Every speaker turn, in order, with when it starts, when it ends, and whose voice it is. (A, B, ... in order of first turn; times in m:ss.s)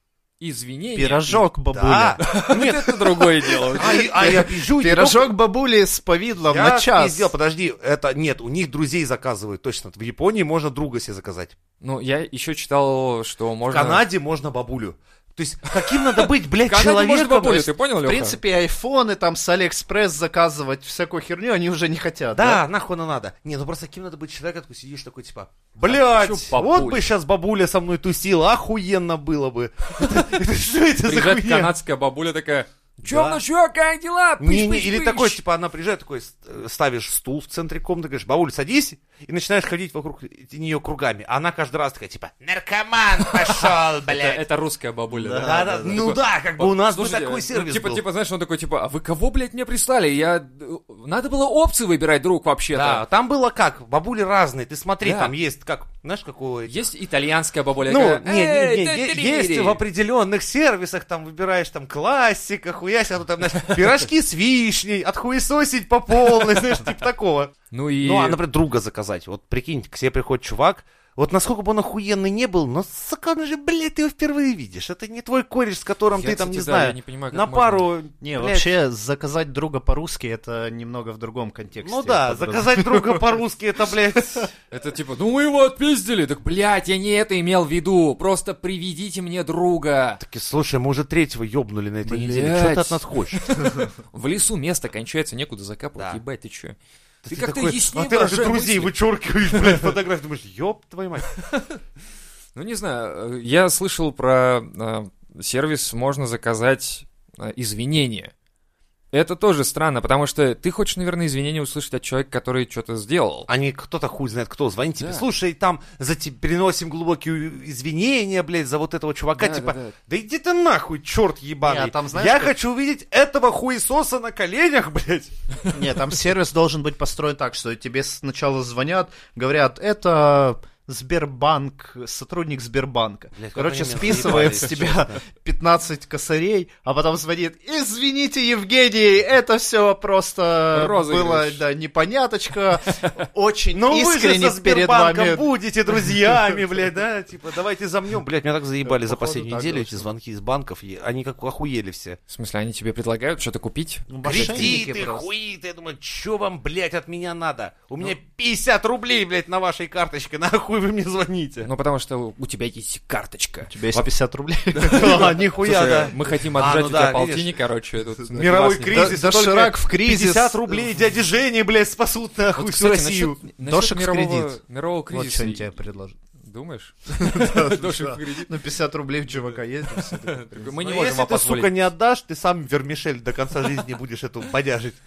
0:00.4-0:01.5 A
0:00.9-0:02.2 B
0:01.7-0:05.2 C
0:02.2-0:04.0 A
0:03.7-0:07.3 B
0:06.5-0:11.6 C
0:11.8-0:14.0 A
0:13.7-0:17.7 C
0:15.7-0:18.4 A
0:18.0-0:22.6 B
0:22.4-0:31.7 C
0:25.9-0:27.1 A
0:30.0-0:30.2 A
0:31.0-0:35.4 A
0:33.1-0:33.4 C
0:34.4-0:44.4 C
0:43.2-0:53.0 A
0:45.1-0:46.0 B
0:45.4-0:48.0 C
0:52.8-0:56.8 C
0:55.0-0:55.3 A
0:56.7-0:59.8 A
0:57.9-1:18.7 C
1:07.7-1:08.4 A
1:16.1-1:17.9 A
1:18.2-1:23.2 B
1:21.8-1:24.5 C
1:24.7-1:30.2 A
1:30.2-1:33.5 C
1:32.1-1:36.8 A
1:37.2-1:41.4 C
1:37.3-1:38.9 A
1:41.4-1:41.8 A
1:42.6-1:48.3 A
1:49.1-1:53.5 A
1:53.5-2:05.3 C
1:55.0-1:55.2 A
1:59.4-2:00.0 A
2:01.6-2:02.5 B
2:05.7-2:25.4 B
2:13.4-2:15.1 C
2:20.7-2:21.6 A
2:23.8-2:32.2 C
2:28.8-2:30.1 B
2:32.3-2:34.7 A
2:34.1-2:35.3 B
2:34.2-2:41.7 C
2:41.6-2:44.1 A
2:43.7-2:46.1 B
2:44.7-2:49.1 A
2:44.9-2:47.5 C
2:48.4-2:53.4 C
2:48.9-2:50.8 B
2:52.6-2:55.7 A
2:53.6-2:54.6 B
2:55.1-2:56.2 B
2:56.4-2:58.5 A
2:57.2-3:00.8 B
2:59.9-3:01.7 A
3:00.8-3:05.0 C